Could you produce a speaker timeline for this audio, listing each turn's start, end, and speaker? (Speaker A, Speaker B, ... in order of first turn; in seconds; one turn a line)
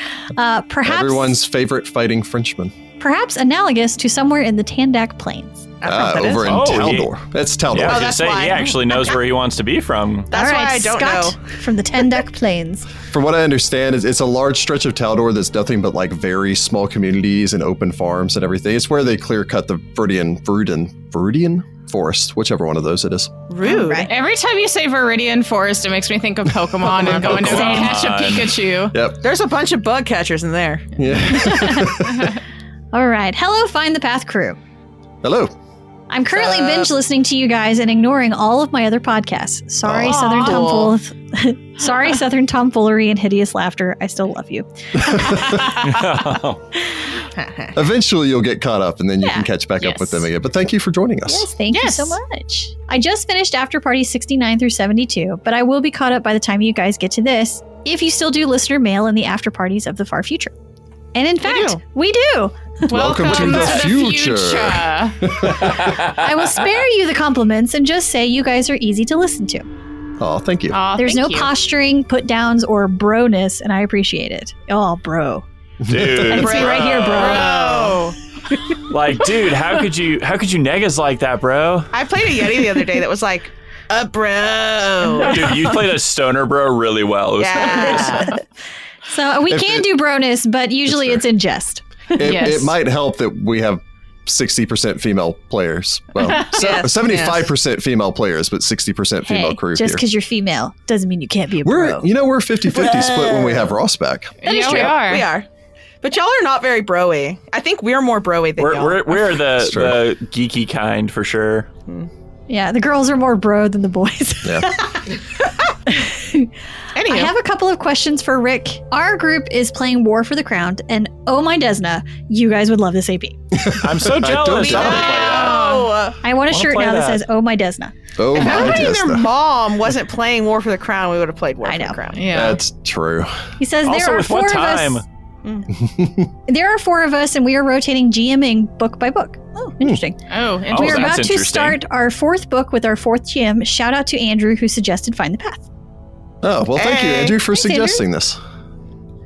Speaker A: 0.4-1.4
Speaker B: 0.8-2.7
Speaker A: 3.0-5.7
Speaker C: 5.8-6.5
Speaker B: 5.9-8.1
Speaker D: 6.5-7.1
Speaker D: 7.7-10.3
Speaker C: 7.8-9.2
Speaker C: 10.3-11.4
Speaker A: 10.3-12.9
Speaker B: 13.1-23.4
Speaker C: 23.5-24.1
Speaker A: 23.6-24.1
Speaker E: 24.1-29.0
Speaker C: 27.0-27.6
Speaker B: 27.1-27.9
Speaker D: 27.1-28.6
Speaker A: 27.5-27.9
Speaker B: 28.9-29.2
Speaker C: 29.2-31.0
Speaker B: 31.0-32.3
Speaker A: 31.3-32.0
Speaker A: 32.9-34.6
Speaker B: 35.2-35.5
Speaker A: 36.1-45.7
Speaker C: 36.3-36.9
Speaker B: 39.8-40.3
Speaker C: 40.1-41.0
Speaker E: 40.2-40.7
Speaker B: 45.0-45.6
Speaker D: 45.8-46.6
Speaker C: 47.4-47.8
Speaker B: 47.7-51.5
Speaker A: 49.2-49.9
Speaker A: 51.3-60.5
Speaker C: 51.7-52.2
Speaker A: 61.1-63.8
Speaker C: 61.4-61.8
Speaker E: 62.9-65.3
Speaker B: 62.9-65.8
Speaker D: 65.7-66.0
Speaker A: 65.9-69.7
Speaker B: 70.2-70.8
Speaker E: 70.7-71.5
Speaker A: 71.0-75.4
Speaker B: 75.8-76.5
Speaker D: 75.9-77.5
Speaker A: 76.2-77.7
Speaker C: 76.3-78.0
Speaker E: 77.1-78.2
Speaker D: 78.9-81.9
Speaker C: 81.9-85.8
Speaker D: 85.2-88.3
Speaker C: 87.4-88.3
Speaker A: 87.7-88.4
Speaker A: 89.1-92.7
Speaker B: 89.5-89.8
Speaker B: 90.9-91.2
Speaker B: 92.2-100.0
Speaker E: 92.2-92.7
Speaker C: 96.4-97.5
Speaker A: 99.2-102.1
Speaker B: 101.6-104.9
Speaker C: 102.7-103.6
Speaker E: 104.4-105.3
Speaker A: 104.5-104.9
Speaker C: 104.5-105.5
Speaker C: 106.0-109.3
Speaker D: 108.6-111.7
Speaker B: 109.6-110.0
Speaker A: 112.5-115.2
Speaker A: 115.9-116.5
Speaker C: 117.0-117.3
Speaker A: 117.1-123.4
Speaker B: 123.5-125.1
Speaker D: 123.8-125.7
Speaker C: 124.6-126.2
Speaker E: 124.7-125.9
Speaker A: 126.2-128.9
Speaker D: 126.5-127.2
Speaker B: 128.2-129.3
Speaker C: 128.3-132.4
Speaker A: 131.6-132.0
Speaker E: 132.1-132.6
Speaker B: 132.3-133.3
Speaker A: 133.6-135.0
Speaker D: 133.9-135.0
Speaker B: 135.8-136.3
Speaker A: 136.5-145.7
Speaker E: 140.3-141.2
Speaker D: 140.7-141.8
Speaker B: 146.4-148.4
Speaker C: 146.8-147.4
Speaker A: 147.5-148.0